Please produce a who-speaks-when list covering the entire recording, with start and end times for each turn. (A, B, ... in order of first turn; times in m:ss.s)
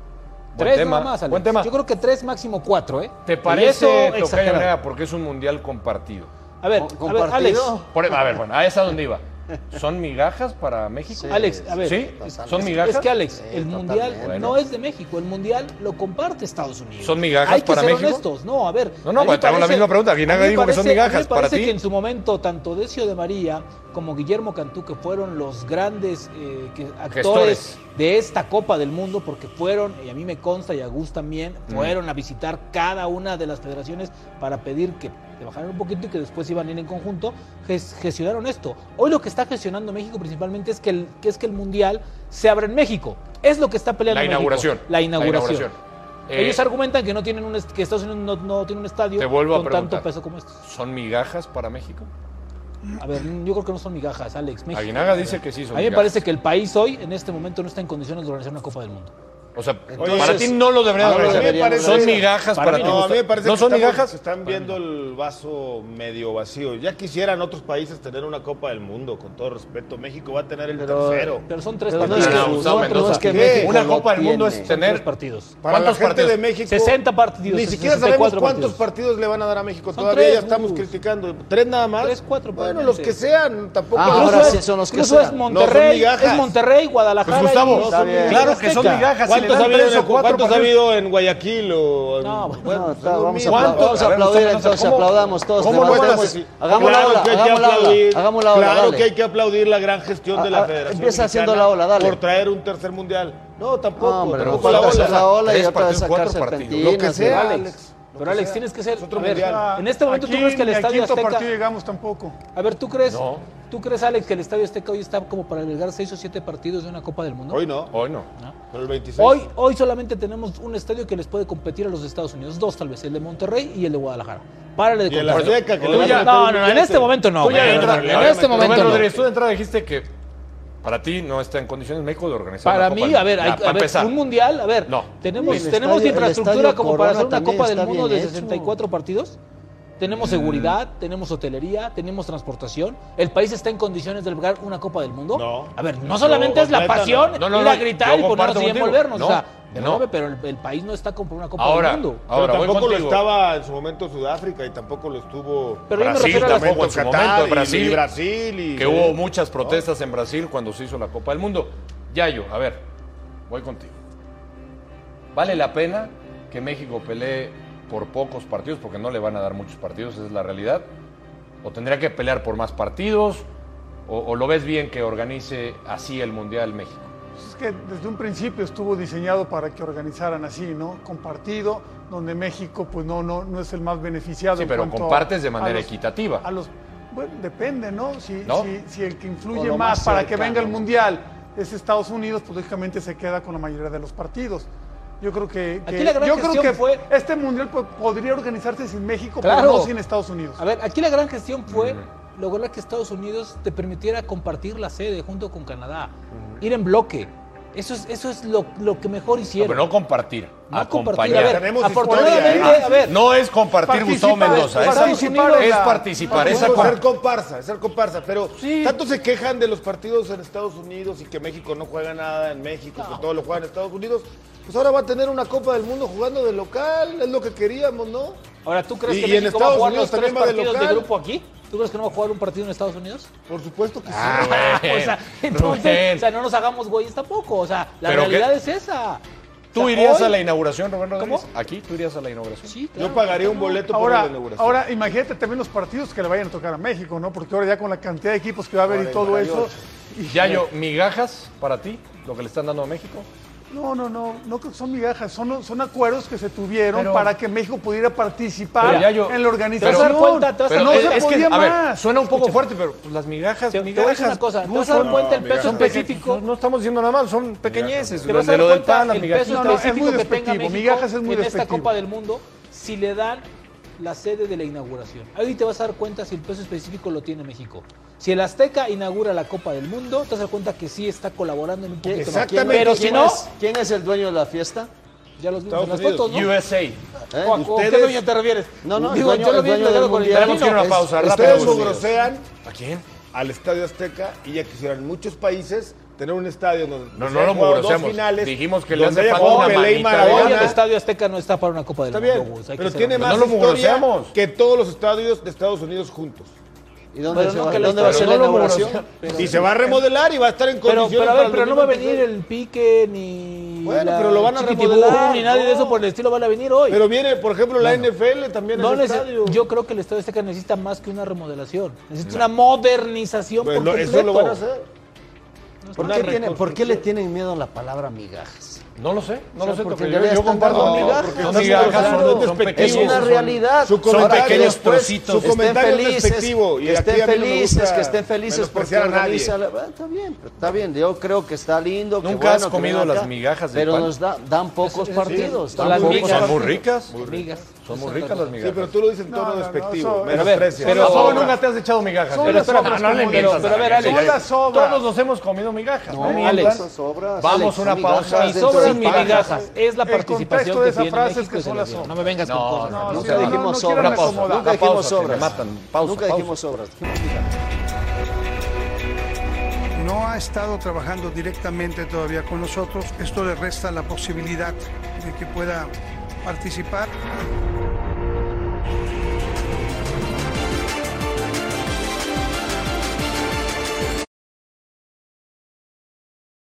0:00.5-0:01.7 A
0:00.6-0:04.7 B
0:03.3-0:06.3 A
0:06.6-0:07.8 B
0:06.8-0:08.2 C
0:07.9-0:13.1 A
0:11.1-0:14.6 C
0:11.3-0:45.7 B
0:14.2-0:14.6 A
0:17.0-0:18.2 A
0:19.0-0:21.8 A
0:27.1-0:27.8 A
0:31.7-0:32.0 A
0:44.1-0:45.8 A
0:46.3-0:46.6 A
0:46.3-0:50.6 B
0:49.2-0:50.1 A
0:50.6-0:52.1 A
0:53.0-0:59.1 B
0:54.7-0:56.2 A
0:59.6-1:04.7 A
0:59.9-1:02.3 C
1:00.0-1:11.5 D
1:02.5-1:03.2 B
1:10.7-1:14.7 C
1:11.5-1:13.7 B
1:12.0-1:15.0 A
1:12.1-1:12.6 D
1:13.2-1:13.7 D
1:14.6-1:15.5 B
1:15.6-1:17.0 D
1:15.6-1:16.4 A
1:16.7-1:18.8 B
1:17.5-1:24.6 D
1:19.9-1:20.9 B
1:22.0-1:23.2 B
1:23.9-1:25.4 C
1:24.1-1:29.1 B
1:25.5-1:26.5 D
1:27.2-1:30.8 A
1:27.3-1:34.1 D
1:27.8-1:28.6 C
1:32.2-1:32.9 B
1:32.6-1:39.1 C
1:33.5-1:37.0 A
1:35.6-1:45.3 D
1:40.3-1:42.2 C
1:44.0-1:47.5 C
1:44.4-1:47.1 A
1:46.8-1:49.7 D
1:47.2-1:51.5 B
1:49.4-1:52.4 E
1:52.5-1:57.6 B
1:53.1-1:53.5 A
1:57.5-1:57.9 D
1:57.9-1:58.3 A
1:58.7-1:59.5 D
1:59.2-2:09.1 B
2:05.1-2:09.3 D
2:05.3-2:06.3 A
2:07.4-2:10.1 A
2:10.8-2:14.2 A
2:12.6-2:19.4 B
2:14.8-2:15.6 A
2:15.3-2:18.8 C
2:20.0-2:32.2 B
2:20.2-2:20.8 A
2:25.3-2:27.4 D
2:27.4-2:30.0 A
2:31.6-2:33.3 A
2:32.3-2:39.8 D
2:35.9-2:36.7 B
2:35.9-2:38.0 A
2:38.8-2:42.8 A
2:43.5-2:44.0 A
2:45.3-2:50.9 A
2:51.6-2:53.5 A
2:54.1-2:57.1 A
2:57.4-3:14.7 E
3:04.6-3:06.5 A
3:08.4-3:08.7 A
3:09.5-3:10.9 C
3:15.2-3:20.6 E
3:15.8-3:17.1 B
3:19.4-3:19.9 B
3:20.6-3:29.9 B
3:21.7-3:22.1 A
3:26.3-3:26.6 D
3:29.6-3:31.8 A
3:30.7-3:33.2 B
3:31.2-3:32.8 D
3:31.9-3:33.2 E
3:32.4-3:37.0 A
3:33.9-3:37.0 E
3:34.4-3:37.0 B
3:36.3-3:48.4 D
3:38.6-3:39.0 B
3:43.0-3:43.2 B
3:48.6-3:53.3 B
3:49.1-3:51.1 D
3:53.5-3:54.8 D
3:54.1-3:59.2 B
3:54.2-3:56.3 A
3:58.0-3:58.5 A
3:59.7-4:02.7 A
3:59.7-4:00.4 B
4:01.2-4:01.4 B
4:02.7-4:03.8 B
4:03.0-4:04.8 D
4:03.5-4:10.7 E
4:08.8-4:09.8 C
4:10.3-4:13.3 A
4:13.7-4:22.4 E
4:16.9-4:17.3 A
4:18.8-4:19.2 B
4:18.8-4:20.2 A
4:19.8-4:21.3 B
4:20.7-4:29.8 A
4:23.7-4:26.4 B
4:25.0-4:26.0 D
4:27.6-4:28.4 D
4:28.2-4:33.5 B
4:29.4-4:31.9 E
4:34.0-4:43.4 B
4:42.0-4:44.9 C
4:42.2-4:43.4 D
4:45.4-4:46.5 B
4:45.7-4:46.4 D
4:46.3-4:47.0 A
4:47.3-4:47.6 C
4:47.4-4:51.0 B
4:47.5-4:48.2 D
4:48.8-4:51.9 C
4:50.3-4:52.1 A
4:51.1-4:52.5 D
4:52.6-4:53.0 A
4:53.3-5:00.8 D
4:57.1-5:00.8 A
4:59.3-5:03.4 B
5:02.1-5:06.5 D
5:03.2-5:04.4 A
5:07.1-5:09.0 C
5:07.3-5:10.0 B
5:07.8-5:09.6 A
5:09.4-5:12.3 D
5:10.8-5:17.0 B
5:13.8-5:16.0 D
5:16.9-5:19.6 D
5:18.8-5:24.6 B
5:23.6-5:24.9 D
5:25.8-5:26.4 B
5:26.0-5:27.0 D
5:26.0-5:28.8 C
5:29.0-5:33.3 A
5:29.6-5:46.8 C
5:30.6-5:39.5 D
5:30.7-5:32.5 B
5:34.0-5:35.5 A
5:42.2-5:44.2 A
5:44.8-5:48.5 B
5:45.2-5:47.5 D
5:45.9-5:47.1 A
5:47.8-5:48.9 A
5:48.6-5:51.5 D
5:49.3-5:51.6 E
5:50.3-5:51.6 B
5:50.8-5:56.9 A
5:52.3-5:55.1 E
5:52.4-5:54.4 B
5:56.1-5:59.6 C
5:56.2-5:56.8 B
5:57.4-5:59.6 A
5:58.3-6:03.6 B
5:59.1-6:02.3 E
6:02.4-6:06.6 A
6:02.9-6:04.8 E
6:03.1-6:07.5 C
6:09.9-6:17.2 F